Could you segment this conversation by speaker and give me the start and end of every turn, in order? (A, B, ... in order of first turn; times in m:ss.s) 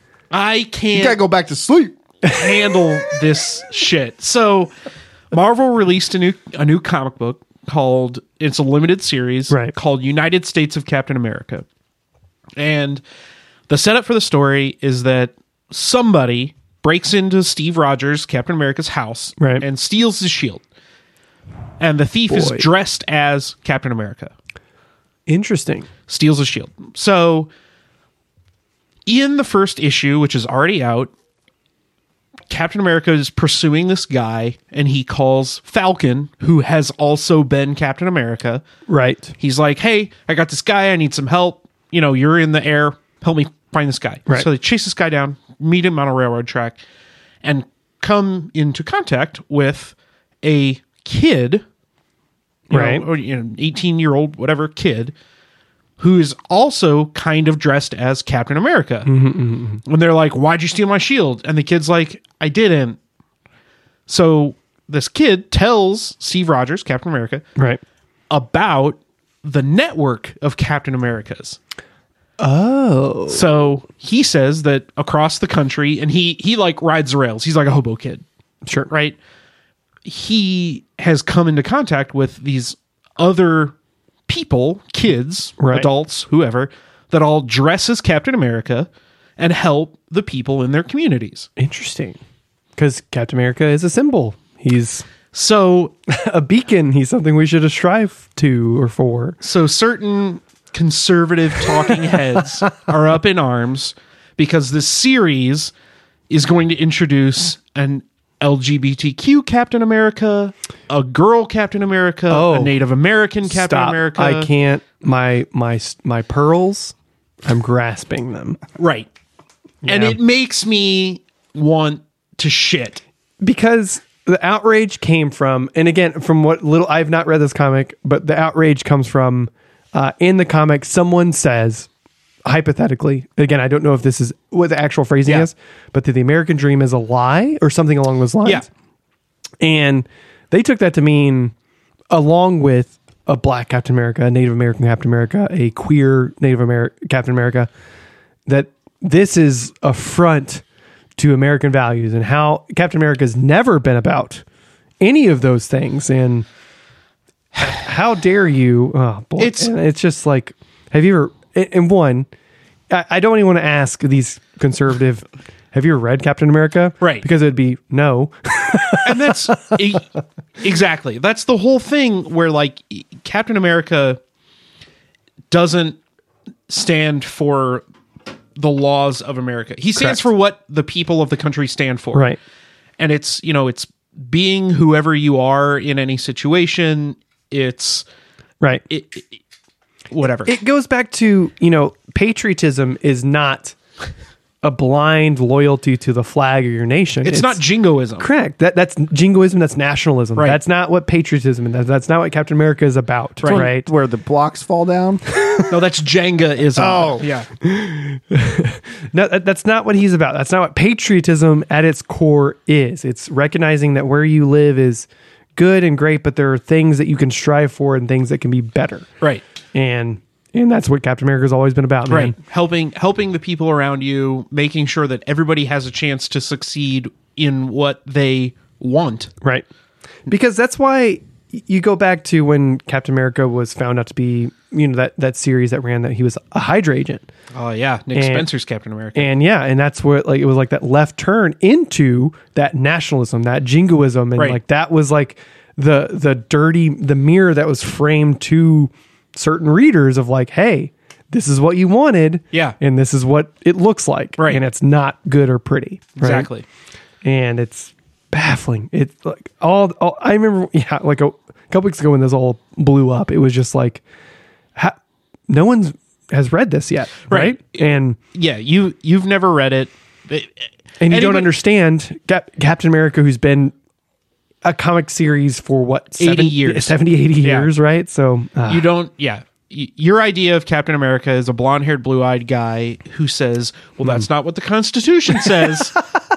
0:00.3-0:01.2 A
0:00.9-0:02.0 B
0:02.2-0:04.7 A
0:05.3-0:11.6 A
0:12.6-0:13.0 A
0:13.7-0:20.6 A
0:19.4-0:19.6 C
0:21.8-0:24.3 A
0:22.3-0:22.6 C
0:25.3-0:25.9 C
0:26.1-0:27.5 A
0:29.0-0:31.1 A
0:32.5-0:38.6 A
0:38.9-0:39.3 C
0:39.4-0:46.8 A
0:47.4-0:51.6 A
0:52.7-0:55.1 A
0:52.7-0:53.0 C
0:56.0-0:59.1 A
0:59.0-0:59.8 C
0:59.8-1:03.0 A
1:04.1-1:07.4 A
1:07.6-1:07.8 C
1:08.3-1:11.6 A
1:12.4-1:13.4 C
1:13.3-1:18.2 A
1:18.6-1:18.9 C
1:18.9-1:19.2 A
1:20.0-1:23.8 A
1:24.3-1:31.5 A
1:25.6-1:25.9 C
1:31.6-1:32.2 C
1:32.8-1:35.0 C
1:35.3-1:35.9 A
1:36.1-1:39.4 C
1:39.4-1:45.7 A
1:42.4-1:42.8 C
1:46.3-1:54.5 A
1:52.3-1:52.8 C
1:53.5-1:56.9 C
1:57.4-1:58.6 C
1:58.8-1:59.1 A
1:59.8-2:00.2 C
1:59.8-2:03.0 A
2:03.4-2:11.9 C
2:12.4-2:18.7 C
2:19.6-2:21.5 C
2:22.1-2:27.7 C
2:28.5-2:30.6 C
2:31.2-2:34.4 C
2:35.0-2:36.4 C
2:37.6-2:42.3 C
2:39.4-2:39.7 A
2:42.9-2:49.8 C
2:47.0-2:47.2 A
2:49.0-2:50.1 A
2:50.6-2:54.2 A
2:55.5-2:56.0 A
2:56.7-2:57.8 A
2:58.6-3:02.3 A
3:03.0-3:08.0 A
3:08.9-3:09.4 A
3:10.1-3:10.5 A
3:10.4-3:13.8 C
3:14.6-3:17.6 C
3:17.2-3:18.3 A
3:18.2-3:23.9 C
3:23.5-3:25.4 B
3:25.6-3:27.5 A
3:26.8-3:27.3 B
3:27.6-3:39.1 C
3:39.7-3:42.4 C
3:42.1-3:49.3 A
3:50.3-3:57.2 C
3:57.5-3:59.3 A
3:58.1-3:58.4 C
3:59.1-4:16.5 C
4:12.5-4:12.8 A
4:16.2-4:16.6 A
4:17.2-4:24.0 C
4:25.5-4:28.2 C
4:27.3-4:31.5 A
4:31.0-4:33.7 C
4:34.6-4:38.9 C
4:36.2-4:37.7 A
4:38.7-4:46.0 A